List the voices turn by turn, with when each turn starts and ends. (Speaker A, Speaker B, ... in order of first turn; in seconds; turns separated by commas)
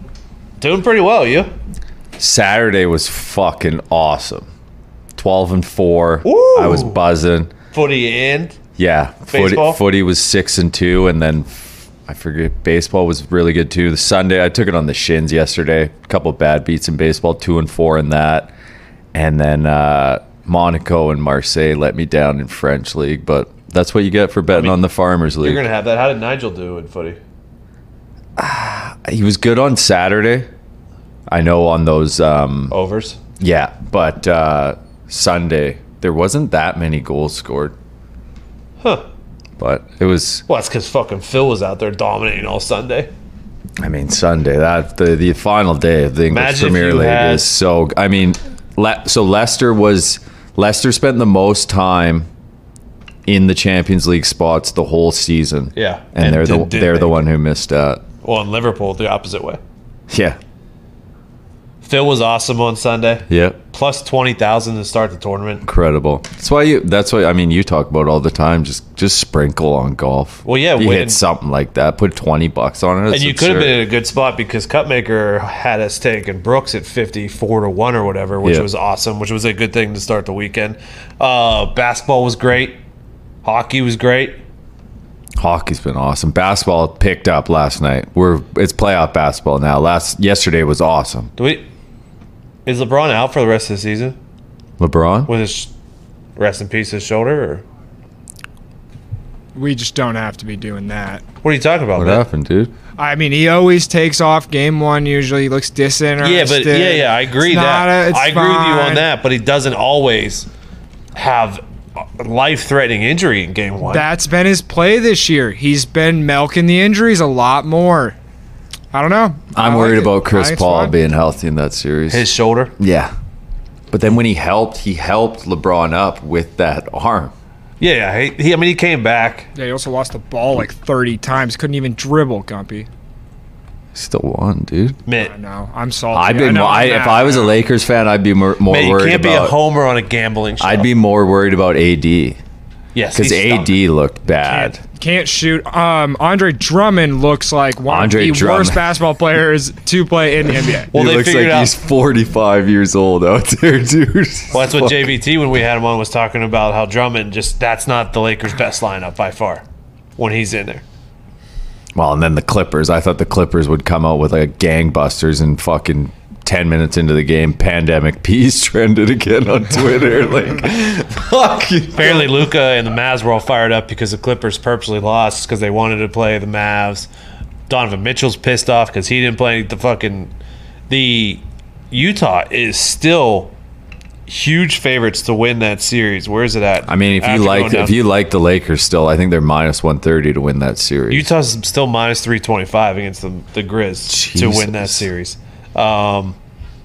Speaker A: 0.6-1.5, Speaker B: 2.2-4.5, Speaker B: 5.2-7.5, Speaker A: 6.2-7.0, Speaker A: 7.7-8.6, Speaker B: 8.8-18.5, Speaker A: 9.3-9.8, Speaker B: 19.1-25.6, Speaker A: 24.5-24.8, Speaker A: 25.4-27.2, Speaker B: 28.4-30.5, Speaker B: 31.3-32.7, Speaker A: 32.7-33.2, Speaker B: 33.4-37.8, Speaker B: 39.6-40.4, Speaker A: 40.5-43.1, Speaker B: 43.8-52.3, Speaker A: 46.3-47.5, Speaker B: 53.2-58.0, Speaker A: 55.7-57.2, Speaker A: 58.2-59.6, Speaker B: 60.1-60.4, Speaker A: 61.8-65.6, Speaker B: 63.3-63.6, Speaker B: 65.6-73.8, Speaker A: 70.4-71.2, Speaker A: 73.1-82.8, Speaker B: 78.4-78.7, Speaker A: 83.4-84.4, Speaker B: 85.4-91.3, Speaker A: 91.4-91.7, Speaker A: 92.7-94.2, Speaker B: 94.8-95.3, Speaker A: 95.3-95.7, Speaker A: 96.4-97.6, Speaker C: 99.5-101.2, Speaker A: 101.4-102.2, Speaker B: 102.0-102.7, Speaker C: 103.0-109.0, Speaker A: 106.2-110.5, Speaker A: 111.1-114.1, Speaker C: 113.9-118.2, Speaker C: 118.9-120.9, Speaker B: 119.5-123.1, Speaker A: 122.1-122.7, Speaker B: 123.9-127.3, Speaker A: 127.8-129.5, Speaker C: 129.6-132.9, Speaker B: 133.9-135.0, Speaker A: 135.1-135.3, Speaker C: 135.2-137.5, Speaker B: 136.1-139.6, Speaker A: 138.7-140.9, Speaker B: 140.6-142.4, Speaker A: 142.9-143.7, Speaker B: 143.1-144.8, Speaker C: 144.9-150.9, Speaker B: 147.9-148.9, Speaker A: 150.9-151.7, Speaker B: 150.9-154.9, Speaker A: 154.5-159.6, Speaker A: 160.2-160.8, Speaker B: 161.9-172.3, Speaker A: 171.9-177.1, Speaker A: 177.7-180.3, Speaker A: 180.9-183.5, Speaker A: 184.3-187.9, Speaker B: 186.9-191.3, Speaker A: 191.1-196.3, Speaker B: 194.1-195.1